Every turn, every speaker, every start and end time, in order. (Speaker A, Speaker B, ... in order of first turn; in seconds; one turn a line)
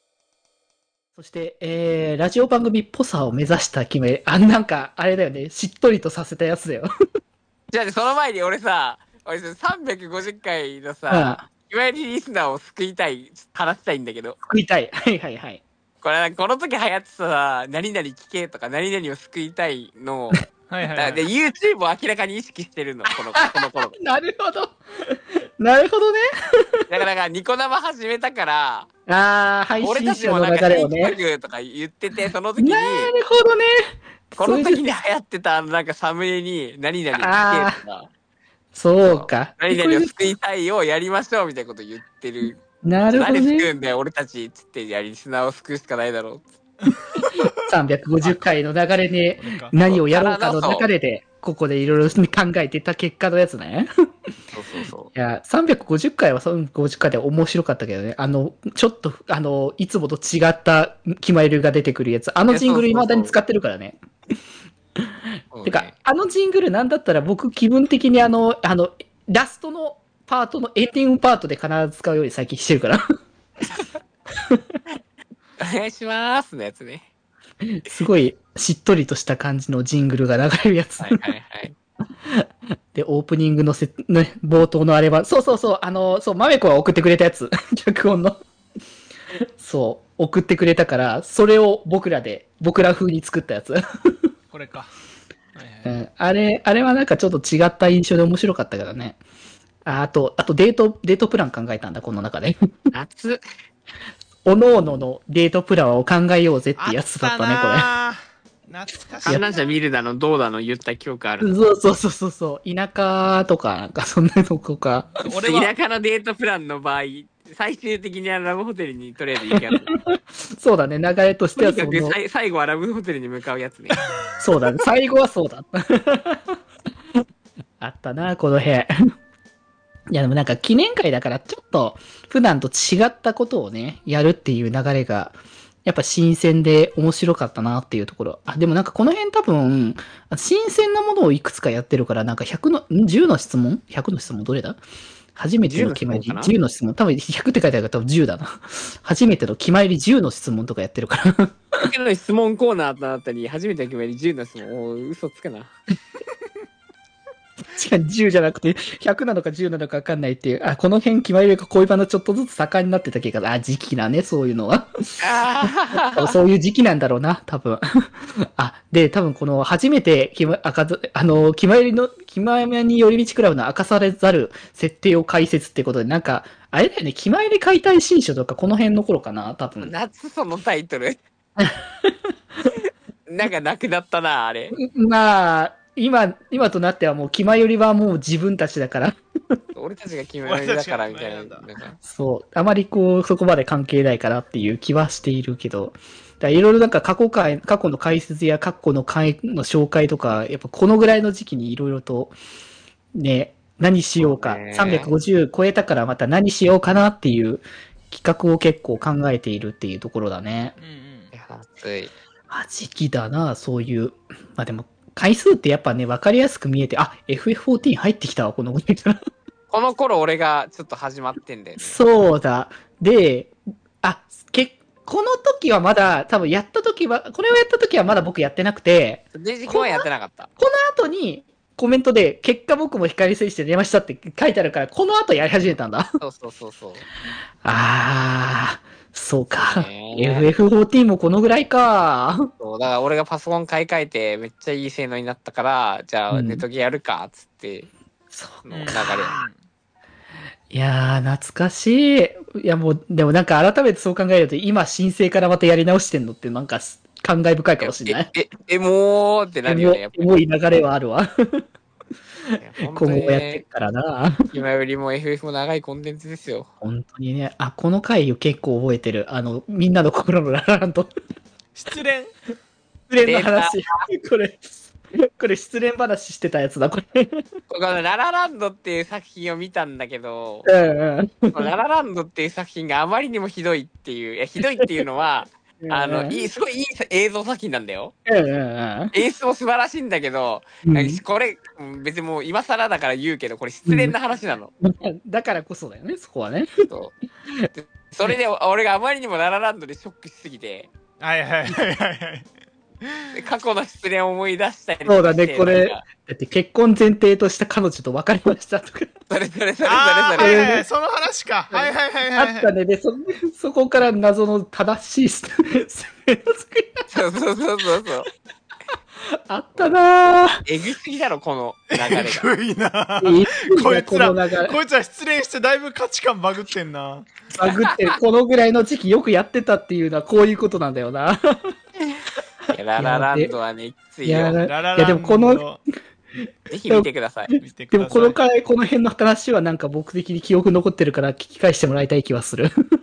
Speaker A: 1.2-6.9
Speaker B: 7.7-14.4
Speaker A: 11.1-11.5
Speaker A: 14.4-15.6
Speaker B: 16.0-20.4
Speaker C: 20.7-21.2
Speaker B: 20.9-23.9
Speaker A: 23.3-26.2
Speaker B: 26.9-28.9
Speaker A: 29.1-31.2
Speaker B: 29.8-33.1
Speaker A: 32.6-33.7
Speaker A: 34.3-34.8
Speaker B: 34.4-38.1
Speaker A: 37.1-37.8
Speaker A: 38.7-40.1
Speaker B: 39.0-42.6
Speaker A: 42.8-43.7
Speaker B: 43.1-46.5
Speaker C: 46.9-47.5
Speaker A: 47.6-53.9
Speaker C: 49.4-49.8
Speaker B: 49.9-50.9
Speaker B: 54.5-55.1
Speaker A: 55.1-64.0
Speaker B: 62.5-63.4
Speaker B: 65.5-65.9
Speaker A: 65.6-73.0
Speaker B: 75.6-77.0
Speaker A: 77.7-81.2
Speaker B: 81.0-81.7
Speaker A: 82.3-88.4
Speaker A: 89.6-93.8
Speaker C: 94.5-94.9
Speaker C: 95.5-96.0
Speaker A: 95.8-99.2
Speaker A: 99.8-102.6
Speaker B: 102.9-103.4
Speaker A: 104.5-107.9
Speaker C: 106.8-109.7
Speaker B: 109.2-111.5
Speaker A: 111.4-115.2
Speaker C: 115.2-115.7
Speaker B: 115.3-119.9
Speaker A: 119.5-122.2
Speaker B: 121.6-124.0
Speaker A: 124.4-126.6
Speaker A: 127.8-128.9
Speaker A: 130.1-144.8
Speaker A: 145.4-151.9
Speaker B: 145.6-146.6
Speaker B: 151.8-155.7
Speaker A: 157.8-179.9
Speaker B: 165.2-166.3
Speaker B: 179.8-181.2
Speaker A: 181.6-182.1
Speaker B: 183.3-184.8
Speaker A: 184.7-189.2
Speaker B: 189.8-192.0
Speaker C: 190.4-191.7
Speaker A: 192.0-202.3
Speaker A: 203.2-210.8
Speaker B: 204.2-205.1
Speaker C: 210.8-211.3
Speaker B: 211.3-212.1
Speaker A: 212.5-219.2
Speaker B: 219.7-222.0
Speaker A: 221.8-230.1
Speaker B: 229.3-230.5
Speaker A: 230.6-236.1
Speaker B: 236.2-237.1
Speaker A: 237.6-242.5
Speaker B: 239.5-240.5
Speaker B: 242.6-247.9
Speaker A: 246.3-246.7
Speaker A: 248.3-249.3
Speaker B: 248.7-249.4
Speaker C: 248.7-249.6
Speaker A: 250.7-258.3
Speaker B: 257.8-260.3
Speaker A: 259.7-261.6
Speaker B: 262.6-263.6
Speaker A: 262.9-264.4
Speaker B: 264.5-266.7
Speaker A: 266.8-271.1
Speaker C: 271.8-272.3
Speaker A: 273.1-274.6
Speaker B: 273.2-273.8
Speaker A: 275.4-277.4
Speaker B: 277.7-280.7
Speaker A: 280.7-281.7
Speaker B: 281.5-288.1
Speaker A: 285.8-286.4
Speaker A: 288.3-289.1
Speaker B: 289.1-294.7
Speaker A: 290.9-291.2
Speaker A: 293.9-294.2
Speaker A: 294.8-296.7
Speaker B: 296.9-297.1
Speaker B: 297.7-300.9
Speaker C: 301.2-302.5
Speaker B: 303.3-306.0
Speaker A: 305.1-309.1
Speaker B: 309.3-310.6
Speaker C: 309.9-312.7
Speaker A: 310.4-310.9
Speaker A: 311.7-317.1
Speaker B: 317.1-318.3
Speaker A: 319.5-320.6
Speaker B: 320.6-322.5
Speaker C: 321.9-327.5
Speaker A: 323.2-324.8
Speaker A: 327.6-331.7
Speaker B: 327.6-327.9
Speaker B: 332.7-334.6
Speaker A: 333.0-333.5
Speaker A: 334.2-335.7
Speaker C: 334.6-335.8
Speaker B: 336.7-337.5
Speaker C: 337.5-338.4
Speaker A: 337.9-342.7